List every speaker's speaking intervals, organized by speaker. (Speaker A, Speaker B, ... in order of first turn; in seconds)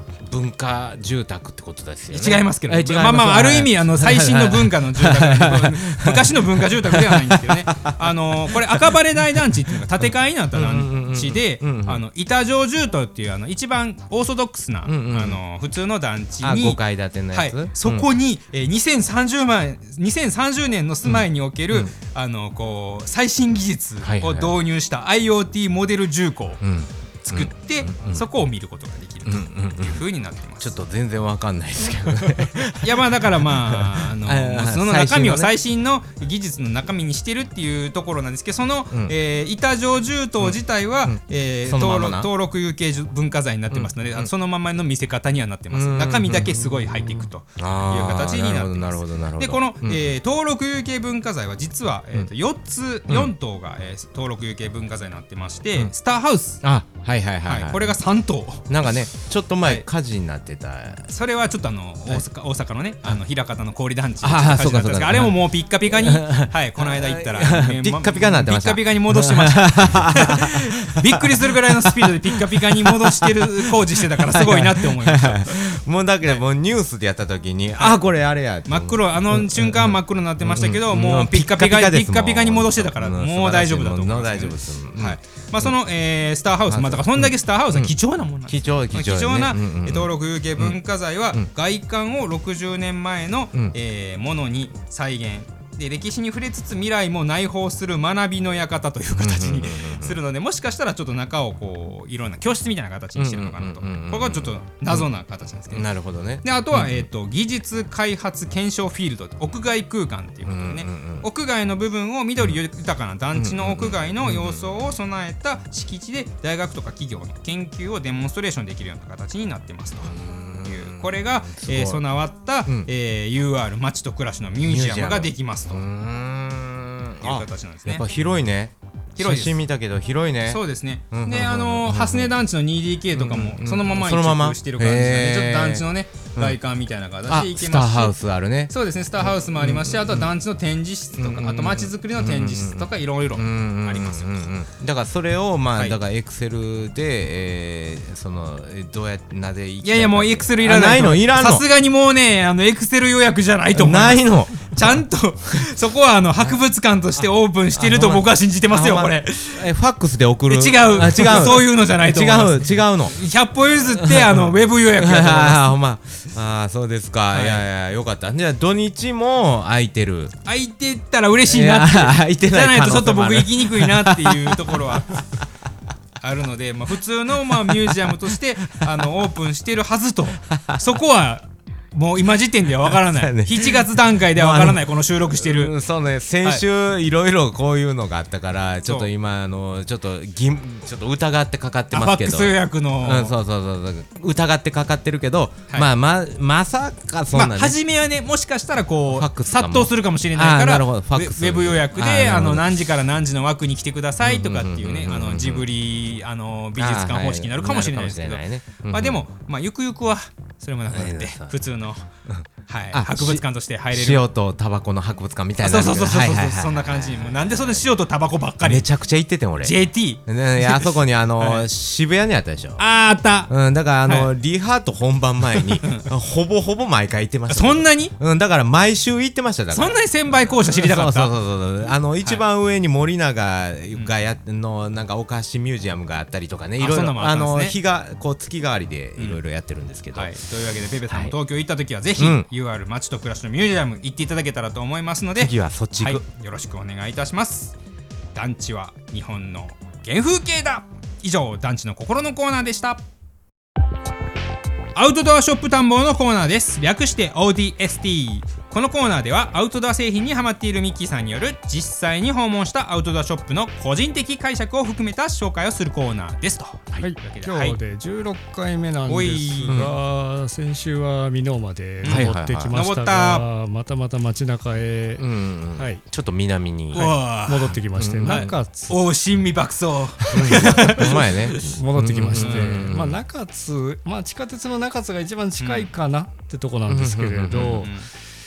Speaker A: 0.2-8.9, 10.5-12.0, 14.8-15.4, 16.4-18.1, 21.0-21.9, 24.0-24.6, 26.6-28.2, 29.2-30.0, 30.6-35.5, 40.4-42.3, 43.7-44.3, 45.7-46.5, 47.5-50.1, 53.1-53.3, 56.6-58.0, 58.7-61.1, 64.2-85.7, 86.7-87.9, 88.5-90.8, 99.1-100.2, 103.2-105.1, 105.7-107.0, 110.5-111.3, 113.3-114.9, 120.0-122.0, 124.6-132.3, 133.1-135.8, 137.3-140.3, 141.2-151.7, 153.7-154.9, 157.2-163.2, 163.8-170.3, 171.5-175.0, 177.7-178.0, 180.5-180.8, 182.8-197.8, 199.1-202.8, 204.2-205.7, 206.8-209.3, 210.9-211.6, 212.2-217.9, 218.6-222.8, 223.5-240.4, 241.1-241.3, 242.2-242.5, 245.4-246.2, 269.6-269.9, 272.0-272.7, 275.2-277.1, 277.7-278.5, 280.3-283.2, 286.9-287.9
Speaker B: 2.1-16.8, 17.3-26.6, 27.2-30.7, 32.8-56.6, 57.4-58.7, 61.1-75.6, 78.7-105.9, 106.4-120.1, 120.6-125.8, 127.2-128.0, 129.2-129.6, 130.4-138.1, 138.7-144.5, 149.8-159.7, 160.5-165.7, 167.3-167.6, 170.4-175.2, 176.2-185.7, 191.9-193.3, 197.3-212.1, 212.7-214.2, 215.6-218.8, 219.6-221.7, 222.8-223.5, 224.0-224.3, 225.8-226.1, 227.5-228.1, 229.7-231.3, 232.2-232.4, 236.8-237.8, 240.1-247.7, 248.3-253.0, 254.9-267.8, 269.1-269.8, 272.0-273.4, 276.9-281.6, 282.4-282.9, 285.6-285.9, 287.7-288.1
Speaker C: 46.4-47.3, 267.0-276.0, 276.9-279.0, 280.2-288.0